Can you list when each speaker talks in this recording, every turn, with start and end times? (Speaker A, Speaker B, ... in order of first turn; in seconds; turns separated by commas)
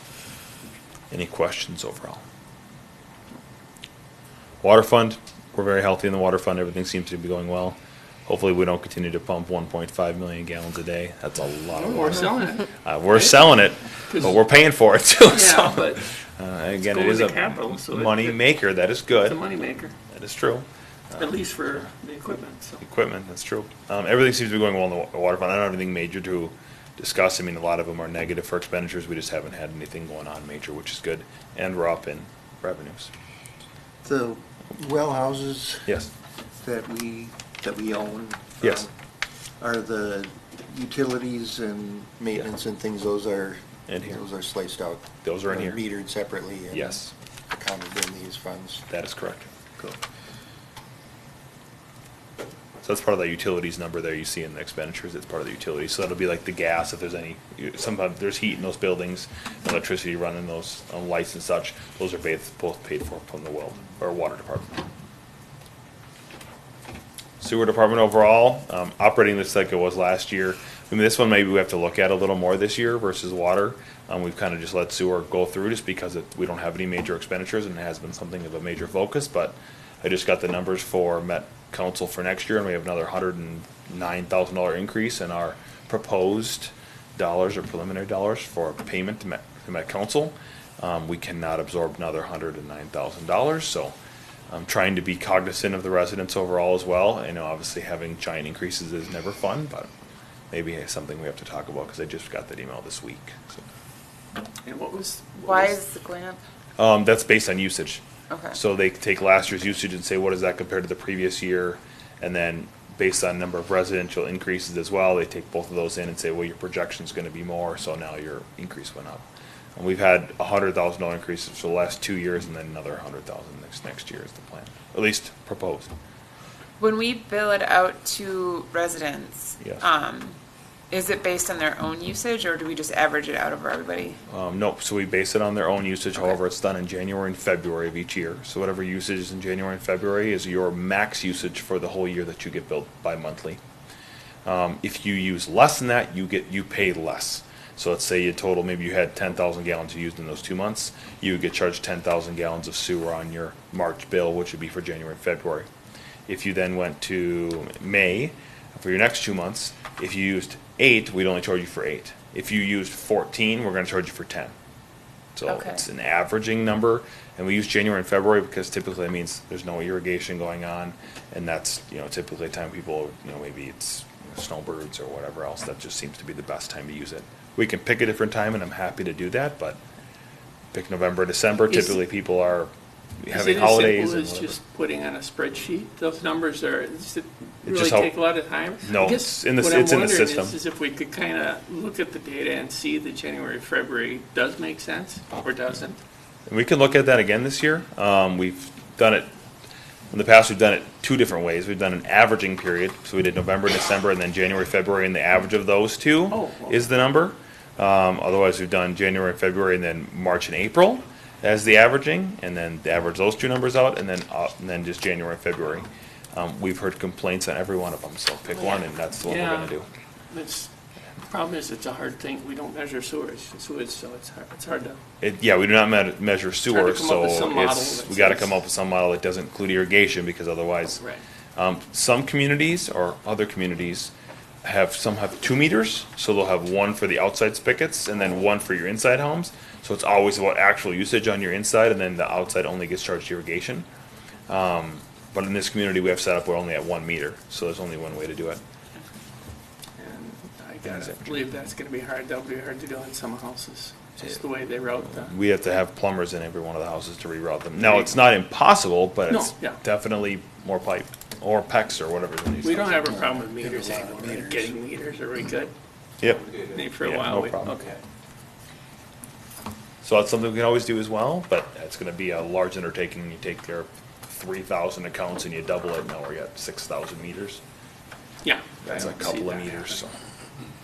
Speaker A: 1.1-2.2, Speaker A: 4.6-19.4, Speaker B: 11.8-13.5, Speaker B: 14.1-14.4, Speaker B: 15.2-16.0, Speaker B: 16.8-18.4, Speaker B: 19.1-19.9, Speaker A: 20.1-21.9, Speaker B: 21.2-22.8, Speaker A: 22.8-33.1, Speaker C: 34.0-35.9, Speaker C: 36.6-38.9, Speaker C: 39.6-48.8, Speaker A: 43.9-44.2, Speaker A: 45.2-45.8, Speaker A: 46.7-47.1, Speaker A: 48.9-49.5, Speaker A: 52.8-64.8, Speaker A: 67.4-93.9, Speaker A: 94.5-99.9, Speaker A: 100.5-103.6, Speaker B: 104.6-105.8, Speaker D: 105.5-106.4, Speaker A: 106.8-119.2, Speaker D: 108.3-108.6, Speaker A: 119.8-125.9, Speaker D: 126.8-130.3, Speaker D: 130.9-134.2, Speaker A: 134.3-143.6, Speaker A: 144.4-155.7, Speaker A: 156.3-164.5, Speaker A: 165.3-179.8, Speaker D: 165.5-165.8, Speaker A: 180.7-184.6, Speaker B: 181.7-182.0, Speaker B: 183.3-196.0, Speaker A: 187.6-190.6, Speaker A: 196.5-199.3, Speaker A: 200.1-219.9, Speaker B: 206.3-206.9, Speaker B: 219.2-219.7, Speaker B: 220.3-220.7, Speaker B: 221.3-225.0, Speaker A: 225.2-231.0, Speaker B: 226.7-228.5, Speaker A: 231.6-234.1, Speaker A: 234.6-243.8, Speaker A: 244.5-248.6, Speaker B: 250.0-255.3, Speaker A: 250.9-251.2, Speaker A: 255.1-263.2, Speaker B: 259.3-259.8, Speaker B: 262.6-265.7, Speaker C: 263.0-264.7, Speaker A: 266.2-267.8, Speaker B: 266.7-267.9, Speaker A: 270.0-277.6, Speaker B: 278.4-279.9, Speaker A: 278.8-280.1